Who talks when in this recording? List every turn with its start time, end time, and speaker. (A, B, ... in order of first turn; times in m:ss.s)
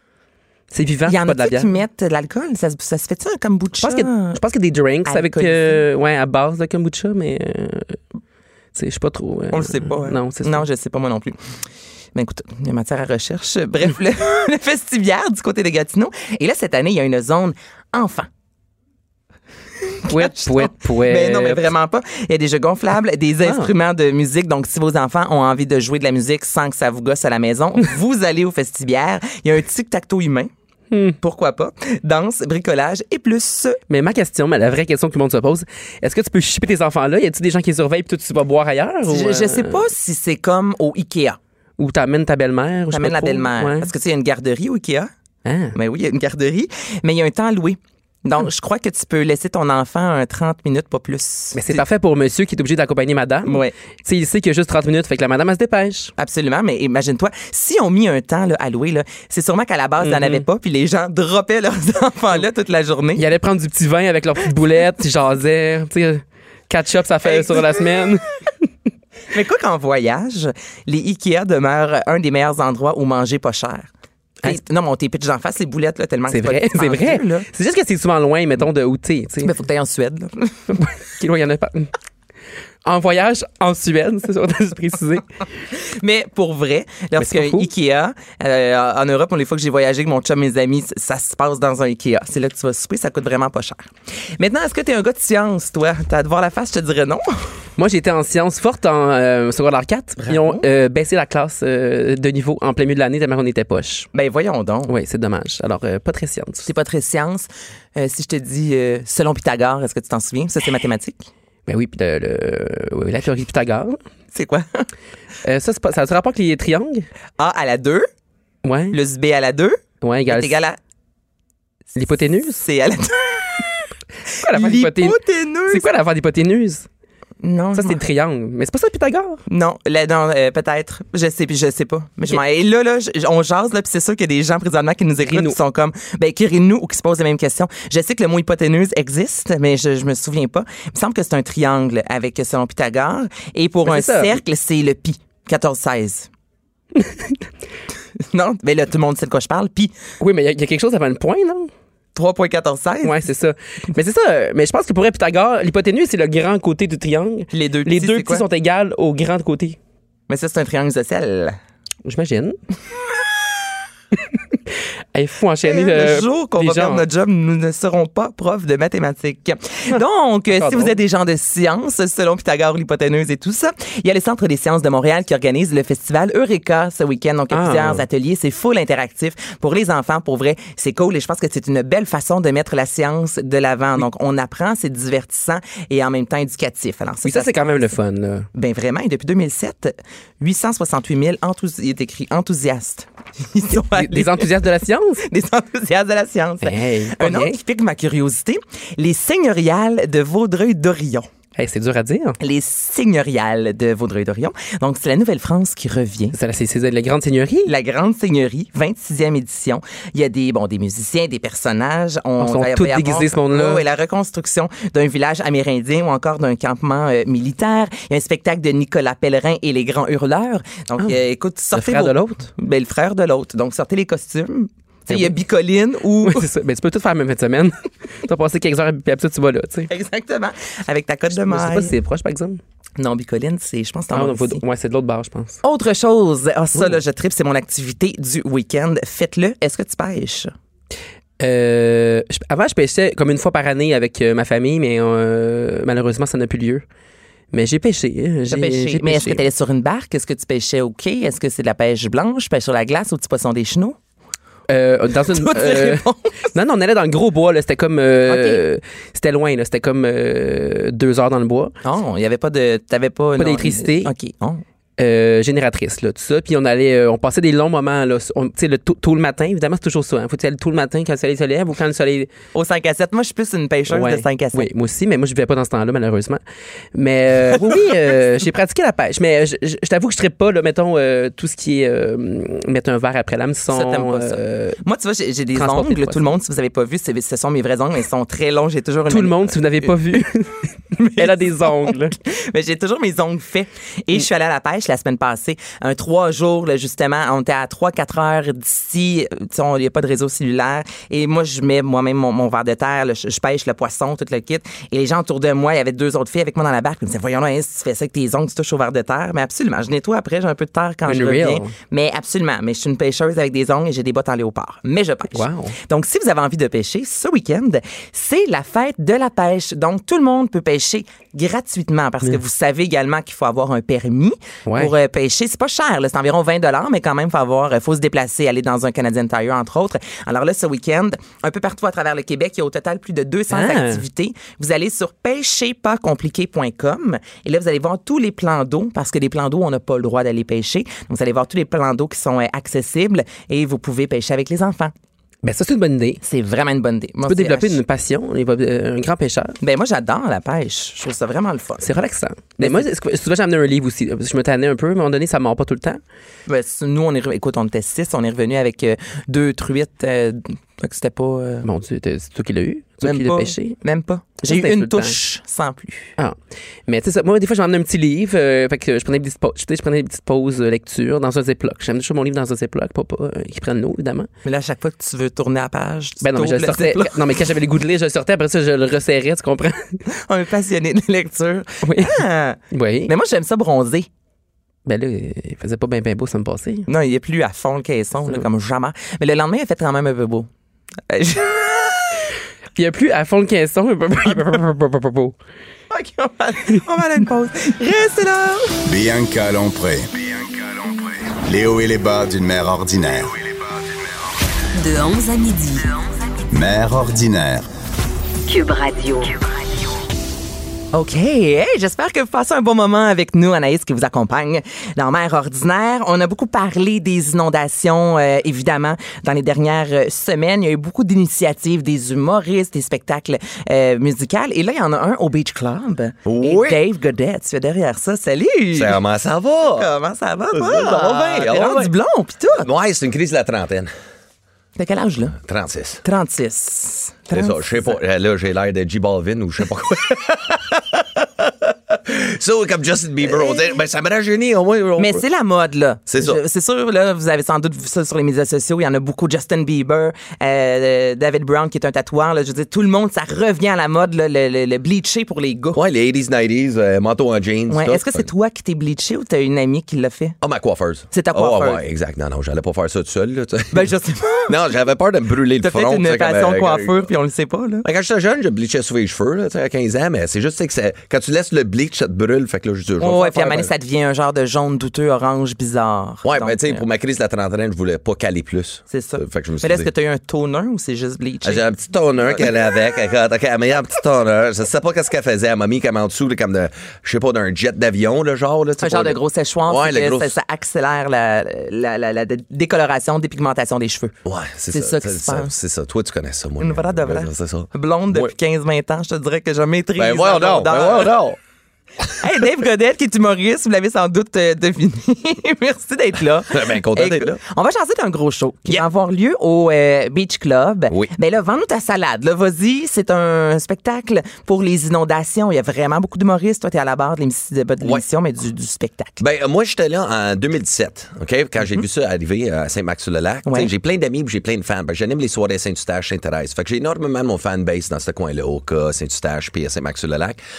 0:00.7-0:01.7 A
0:01.1-0:04.4 B
0:03.8-0:08.0 A
0:05.1-0:05.8 B
0:08.7-0:10.6 A
0:09.5-0:11.4 B
0:12.2-0:18.3 B
0:20.0-0:30.5 B
0:20.1-0:21.7 A
0:23.4-0:23.7 A
0:30.9-0:31.2 A
0:31.2-0:33.8 B
0:33.9-0:39.9 A
0:39.1-0:41.4 B
0:41.8-0:43.9 A
0:42.9-0:45.1 B
0:45.4-0:45.8 A
0:45.8-0:51.8 B
0:51.6-0:56.1 A
0:53.5-0:53.7 B
0:56.2-1:03.2 B
1:00.0-1:00.4 A
1:03.2-1:08.7 A
1:07.2-1:07.9 B
1:09.3-1:13.9 B
1:14.4-1:17.5 B
1:16.3-1:19.6 A
1:19.4-1:20.8 B
1:20.7-1:21.9 A
1:22.8-1:25.3 A
1:25.7-1:37.5 B
1:27.2-1:27.7 A
1:37.8-1:44.1 A
1:40.2-1:40.6 B
1:44.1-1:44.9 B
1:44.9-1:46.7 A
1:46.6-1:51.3 B
1:51.7-1:54.0 A
1:54.3-1:54.9 B
1:55.4-1:57.1 A
1:57.4-1:58.1 B
1:58.6-1:59.0 A
1:58.9-2:00.8 B
2:00.0-2:00.5 A
2:02.0-2:02.6 A
2:02.5-2:03.7 B
2:04.4-2:05.9 B
2:04.4-2:05.2 A
2:05.7-2:06.9 A
2:07.4-2:08.0 B
2:07.8-2:09.4 A
2:09.5-2:26.3 B
2:15.3-2:15.6 A
2:23.9-2:24.4 A
2:27.0-2:27.3 A
2:28.3-2:29.9 B
2:30.2-2:31.7 A
2:32.2-2:33.2 B
2:33.0-2:39.8 A
2:37.5-2:38.4 B
2:40.3-2:41.6 B
2:42.0-2:42.6 A
2:45.1-2:47.0 A
2:45.6-3:07.6 B
2:50.5-2:51.0 A
2:57.5-2:58.0 A
3:07.2-3:08.5 A
3:08.6-3:14.5 B
3:13.8-3:15.2 A
3:15.2-3:21.3 B
3:16.6-3:17.6 A
3:21.6-3:22.4 A
3:22.4-3:26.4 B
3:26.3-3:27.7 A
3:27.7-3:46.5 B
3:32.4-3:33.8 A
3:41.7-3:42.5 A
3:46.2-3:49.9 A
3:49.9-3:51.9 B
3:51.4-3:52.6 A
3:53.0-3:54.6 B
3:54.1-3:55.6 A
3:55.6-4:00.5 B
4:01.4-4:06.8 A
4:07.5-4:09.4 A
4:08.5-4:14.0 B
4:14.7-4:21.7 A
4:15.3-4:16.3 B
4:18.3-4:18.6 B
4:21.8-4:24.6 B
4:23.4-4:24.1 A
4:25.0-4:32.3 A
4:32.5-4:34.7 B
4:33.9-4:36.4 A
4:36.9-4:44.8 A
4:43.7-4:49.9 B
4:45.6-4:46.2 A
4:49.1-4:52.2 A
4:50.9-5:44.9 B
5:11.1-5:11.7 A
5:15.3-5:15.8 A
5:24.7-5:24.9 A
5:33.5-5:34.0 A
5:45.4-5:46.2 A
5:46.2-5:47.8 B
5:47.3-5:49.6 A
5:49.6-5:51.9 B
5:51.8-5:56.0 A
5:52.6-5:52.9 B
5:56.5-6:01.7 B
6:01.6-6:03.8 A
6:03.0-6:06.1 B
6:04.4-6:05.2 A
6:06.9-6:14.3 A
6:14.4-6:17.2 B
6:16.2-6:20.0 A
6:20.1-6:24.1 B
6:21.8-6:22.2 A
6:22.7-6:23.1 A
6:24.9-6:26.9 A
6:26.9-6:30.5 B
6:31.1-6:32.2 B
6:32.8-6:35.4 A
6:35.9-6:38.8 B
6:38.9-6:43.7 C
6:44.7-6:45.9 D
6:46.5-6:47.7 C
6:48.5-6:49.5 D
6:50.9-7:09.0 B
7:06.2-7:06.8 E
7:08.8-7:09.9 E
7:09.8-7:12.7 B
7:10.5-7:11.9 E
7:12.5-7:13.9 E
7:14.8-7:15.4 B
7:15.4-7:16.0 E
7:16.0-7:17.9 B
7:17.3-7:25.2 E
7:25.0-7:35.8 B
7:26.1-7:26.4 E
7:35.8-7:38.3 E
7:37.7-7:40.4 B
7:40.4-7:43.9 E
7:41.1-7:41.8 B
7:43.7-7:44.6 B
7:44.5-7:47.1 E
7:45.6-7:47.9 B
7:47.8-7:53.7 E
7:53.0-7:56.8 B
7:56.2-7:59.9 E
7:58.9-8:01.7 B
8:01.4-8:10.4 E
8:08.8-8:14.2 B
8:14.2-8:18.3 E
8:14.7-8:15.5 B
8:16.6-8:21.2 B
8:20.0-8:21.4 E
8:22.2-8:39.2 B
8:26.5-8:27.4 E
8:39.2-8:50.4 E
8:43.5-8:43.7 B